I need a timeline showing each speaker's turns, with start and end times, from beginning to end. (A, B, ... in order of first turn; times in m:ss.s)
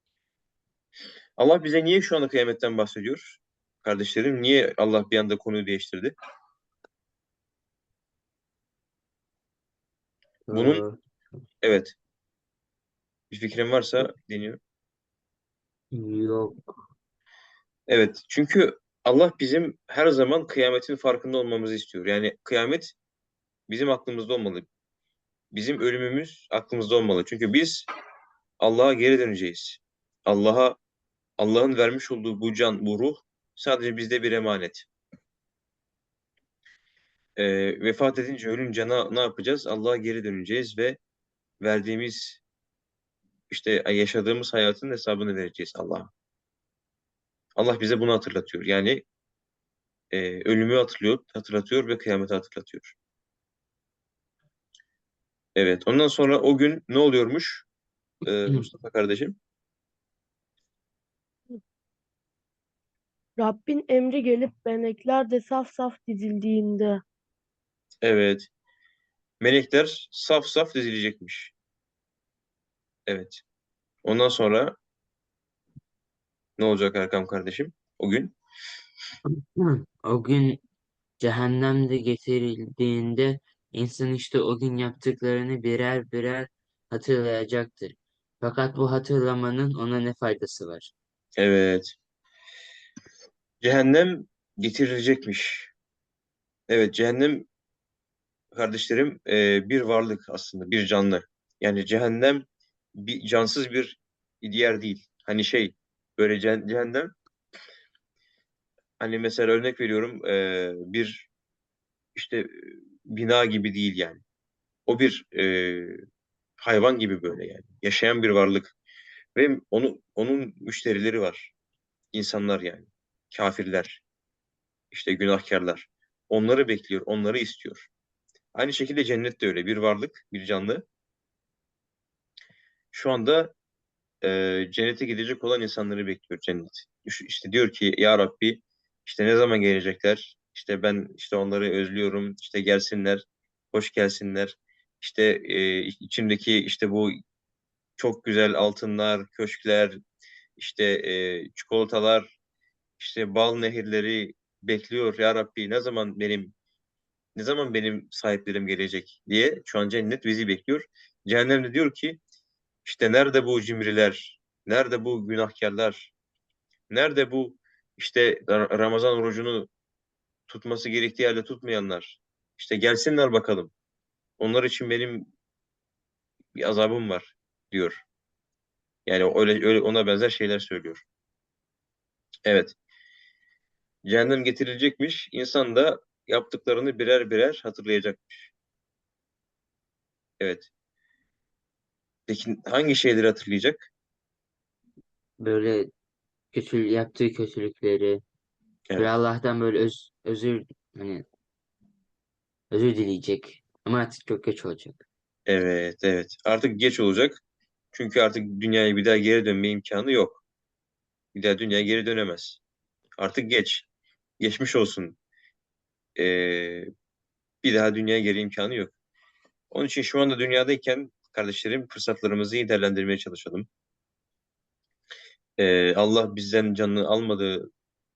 0:01.4-0:06.1 A
0:10.4-0:11.0 B
0:10.5-0:10.8 A
0:11.6-0:11.9 A
0:13.3-0:14.6 A
0:15.9-0:16.8 B
0:17.9-0:23.0 A
0:23.7-0:24.7 A
0:25.5-0:27.9 A
0:28.6-0:30.8 A
0:31.4-0:34.9 A
0:37.4-0:41.0 A
0:41.6-0:42.4 A
0:43.5-0:46.1 A
0:47.6-0:49.0 A
0:50.1-0:53.0 A
0:55.6-0:57.6 A
0:58.2-0:59.4 A
1:03.4-1:07.0 C
1:08.0-1:08.5 A
1:09.4-1:11.5 A
1:13.1-1:13.4 A
1:14.0-1:14.8 A
1:16.6-1:18.3 A
1:19.6-1:20.6 B
1:21.2-1:30.9 B
1:31.4-1:32.0 A
1:33.6-1:35.7 A
1:36.7-1:37.5 A
1:38.5-1:47.1 A
1:49.0-1:51.3 A
1:52.1-1:54.2 A
1:54.9-1:56.0 A
1:56.6-1:58.7 A
1:59.4-2:01.5 A
2:02.1-2:04.0 A
2:04.9-2:07.9 A
2:08.5-2:10.8 A
2:12.9-2:13.5 A
2:14.2-2:27.1 A
2:28.0-2:30.0 A
2:30.6-2:32.4 A
2:33.0-2:36.5 A
2:37.4-2:42.2 A
2:42.8-2:46.1 A
2:46.9-2:49.7 A
2:50.5-2:53.7 A
2:54.4-2:55.3 A
2:56.6-2:58.0 A
2:59.0-3:01.0 A
3:02.4-3:02.8 A
3:04.0-3:08.5 A
3:10.4-3:10.7 A
3:12.3-3:13.9 A
3:15.4-3:15.9 B
3:16.5-3:18.2 B
3:18.9-3:19.1 A
3:19.0-3:21.2 B
3:22.7-3:25.0 B
3:25.5-3:27.4 A
3:27.9-3:30.4 A
3:31.3-3:32.6 A
3:33.2-3:33.9 A
3:34.4-3:35.2 A
3:36.2-3:36.9 A
3:37.6-3:38.9 A
3:39.7-3:43.7 A
3:45.6-3:47.7 A